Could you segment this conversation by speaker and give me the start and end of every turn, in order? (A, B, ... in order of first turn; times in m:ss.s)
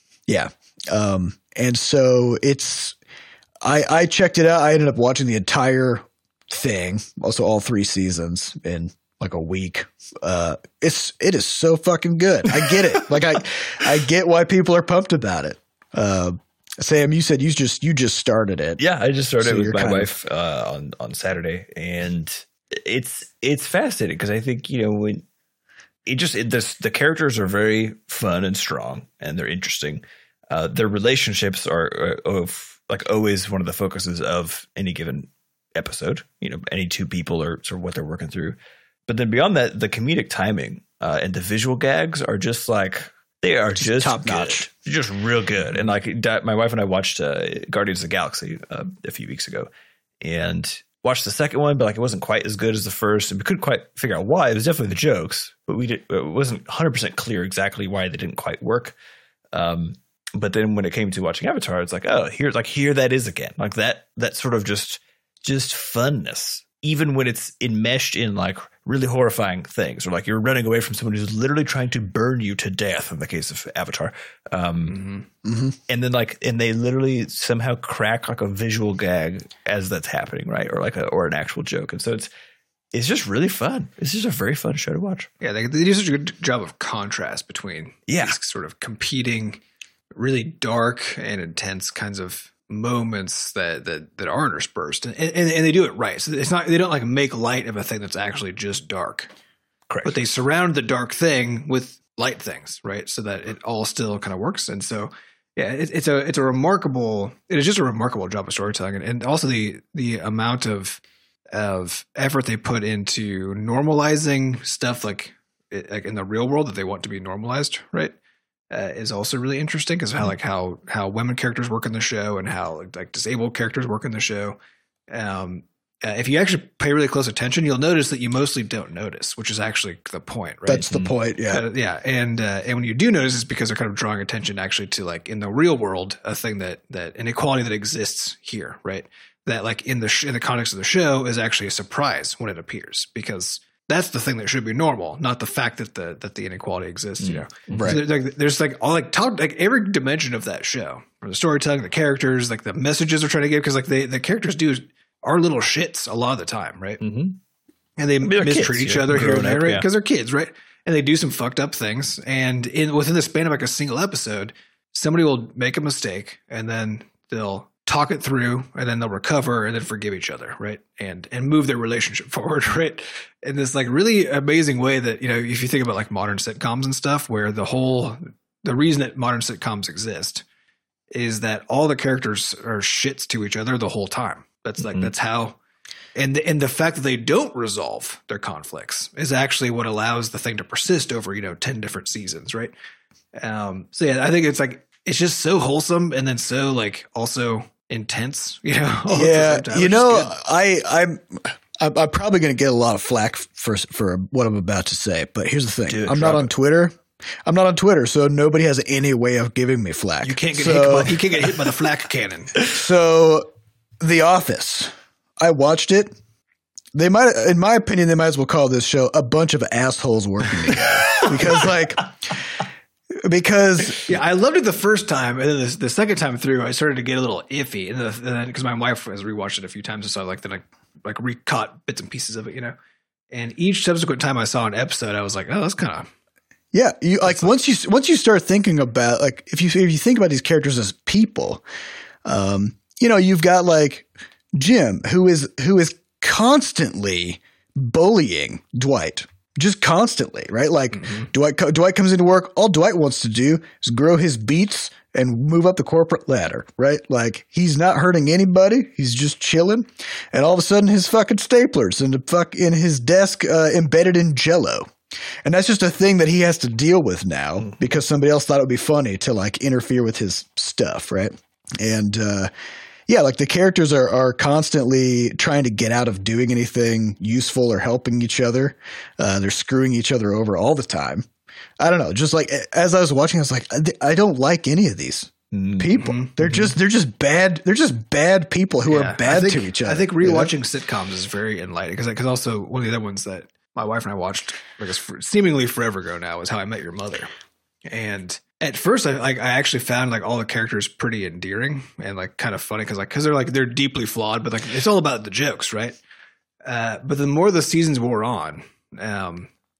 0:00.3-0:03.0 A
0:03.6-0:18.8 A
0:18.8-0:25.2 B
0:19.4-0:20.1 A
0:26.1-0:38.6 B
0:39.1-0:49.7 B
0:43.8-0:44.7 A
0:50.2-0:58.9 B
0:59.5-1:15.0 B
1:14.9-1:15.2 C
1:15.4-1:15.8 A
1:15.9-1:22.3 B
1:22.9-1:25.3 B
1:25.4-1:29.6 C
1:28.1-1:28.3 B
1:30.1-1:39.3 C
1:39.9-1:40.2 B
1:40.0-1:58.1 C
1:58.7-2:04.6 C
2:05.1-2:37.0 C
2:10.6-2:11.6 A
2:27.2-2:28.0 B
2:27.7-2:28.0 A
2:37.0-2:37.4 B
2:38.0-3:00.4 C
2:38.2-2:39.8 B
3:01.1-3:05.6 C
3:04.8-3:05.1 B
3:06.1-3:12.7 C
3:13.4-3:20.3 C
3:19.1-3:31.2 A
3:25.9-3:26.5 B
3:30.2-3:32.6 C
3:32.7-3:33.5 A
3:34.0-3:36.1 A
3:36.9-3:42.3 A
3:43.1-3:44.0 A
3:44.0-3:52.7 C
3:53.3-3:56.1 C
3:56.7-4:01.6 A
4:02.2-4:24.9 A
4:10.9-4:11.3 C
4:25.4-4:32.5 A
4:33.1-4:41.2 A
4:41.8-4:50.5 A
4:45.5-4:46.0 B
4:46.0-4:46.3 C
4:48.9-4:57.3 C
4:57.8-5:06.0 C
5:06.6-5:09.5 C